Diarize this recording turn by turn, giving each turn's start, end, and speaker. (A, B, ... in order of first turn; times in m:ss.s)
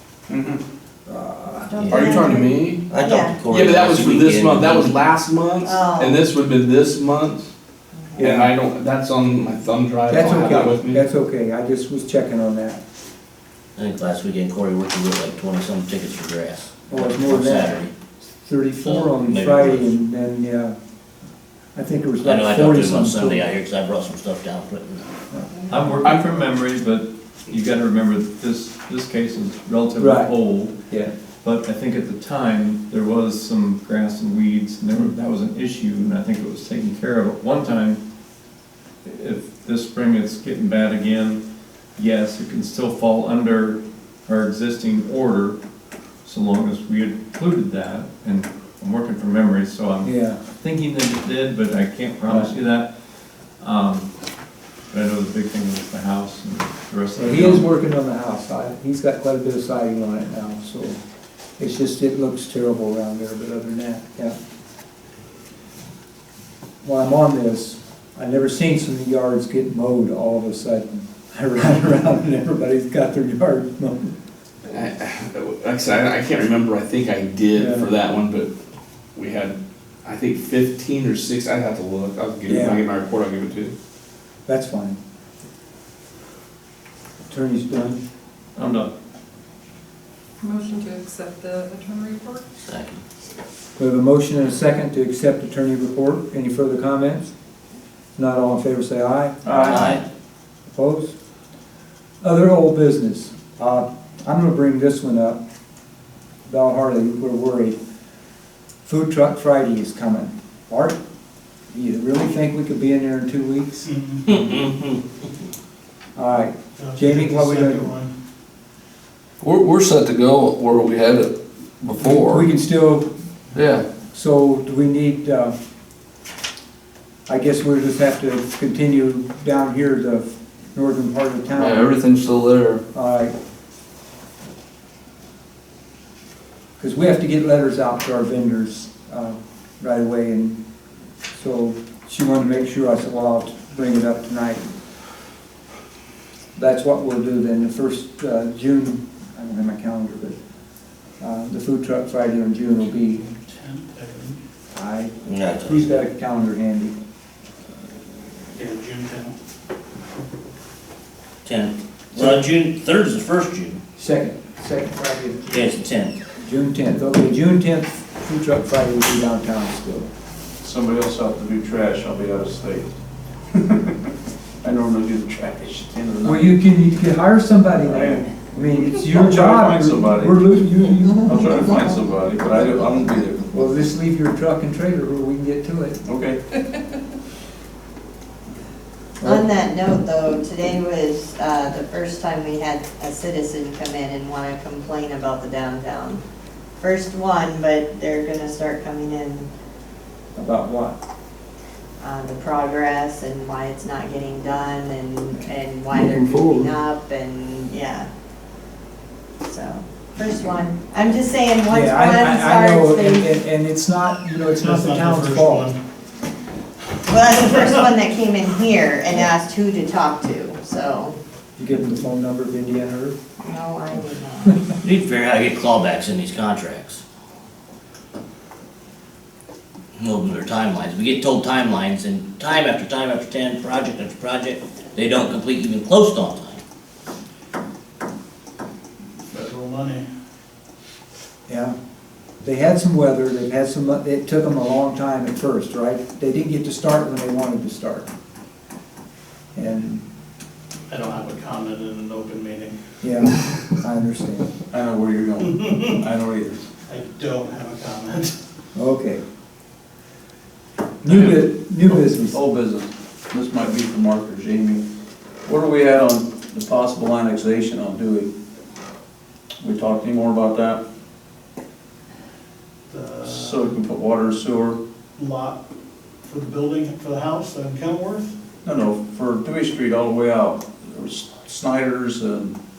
0:00.3-0:00.6 A
0:01.1-0:01.7 B
0:01.7-0:03.5 C
0:01.8-0:02.0 D
0:02.0-0:02.7 E
0:02.9-0:05.0 D
0:03.5-0:07.5 F
0:05.6-0:06.2 C
0:08.0-0:08.2 C
0:08.2-0:08.5 B
0:08.2-0:11.0 F
0:10.1-0:12.8 B
0:13.8-0:17.9 D
0:16.9-0:17.8 B
0:18.4-0:20.8 B
0:18.8-0:19.9 D
0:21.7-0:23.4 B
0:22.2-0:25.0 D
0:25.6-0:26.0 G
0:25.7-0:30.8 H
0:30.0-0:30.3 B
0:31.4-0:38.0 H
0:39.0-0:41.4 H
0:41.9-0:45.6 H
0:46.2-0:54.1 H
0:50.0-0:50.4 B
0:54.9-0:57.7 H
0:57.2-1:01.0 B
1:01.6-1:04.4 B
1:06.8-1:14.1 B
1:14.7-1:18.5 F
1:17.5-1:17.9 B
1:19.1-1:23.7 F
1:22.5-1:22.8 B
1:24.5-1:25.0 B
1:27.3-1:28.0 B
1:28.6-1:28.9 H
1:30.4-1:32.4 G
1:32.6-1:33.0 D
1:33.8-1:37.3 B
1:38.2-1:40.0 B
1:39.4-1:39.9 A
1:39.6-1:40.0 D
1:40.7-1:41.1 B
1:42.2-1:45.4 B
1:46.5-1:47.8 B
1:48.8-1:51.0 B
1:51.7-1:53.8 B
1:53.8-1:54.2 I
1:54.3-1:55.0 D
1:56.2-1:57.8 B
1:56.8-1:58.1 I
1:59.4-2:02.4 E
2:02.0-2:03.1 B
2:03.5-2:03.9 E
2:04.1-2:05.5 B
2:07.3-2:12.0 B
2:11.5-2:12.8 E
2:12.9-2:13.3 B
2:16.8-2:20.6 B
2:21.3-2:24.7 B
2:26.6-2:30.4 B
2:31.2-2:33.2 B
2:33.0-2:34.4 I
2:34.7-2:37.0 B
2:35.2-2:35.9 D
2:38.6-2:39.3 I
2:41.4-2:43.8 D
2:42.2-2:42.5 B
2:44.0-2:45.8 B
2:45.5-2:46.2 D
2:46.4-2:50.1 B
2:50.6-2:52.9 A
2:53.5-2:53.9 A
2:54.6-2:56.5 A
2:56.2-3:01.8 B
2:57.8-3:00.5 A
3:01.2-3:03.5 A
3:03.5-3:06.0 B
3:06.0-3:06.4 A
3:09.2-3:16.2 C
3:16.8-3:19.5 C
3:20.3-3:21.0 B
3:22.0-3:28.1 C
3:26.0-3:26.7 E
3:29.4-3:33.3 C
3:31.7-3:35.6 B
3:34.5-3:35.8 I
3:37.1-3:41.2 C
3:41.6-3:43.2 B
3:43.4-3:44.6 C
3:44.8-3:47.0 D
3:50.0-3:56.6 D
3:59.3-4:00.0 I
4:01.5-4:01.7 B
4:02.4-4:08.1 B
4:09.5-4:10.0 B
4:10.9-4:13.6 I
4:13.0-4:14.5 B
4:14.7-4:16.6 A
4:15.6-4:16.0 I
4:16.9-4:18.4 I
4:18.7-4:19.2 B
4:21.0-4:22.4 B
4:22.2-4:24.8 A
4:25.4-4:28.3 A
4:29.6-4:30.8 A
4:32.9-4:33.6 I
4:33.4-4:34.8 A
4:35.2-4:35.6 I
4:36.2-4:38.3 I
4:38.6-4:42.6 A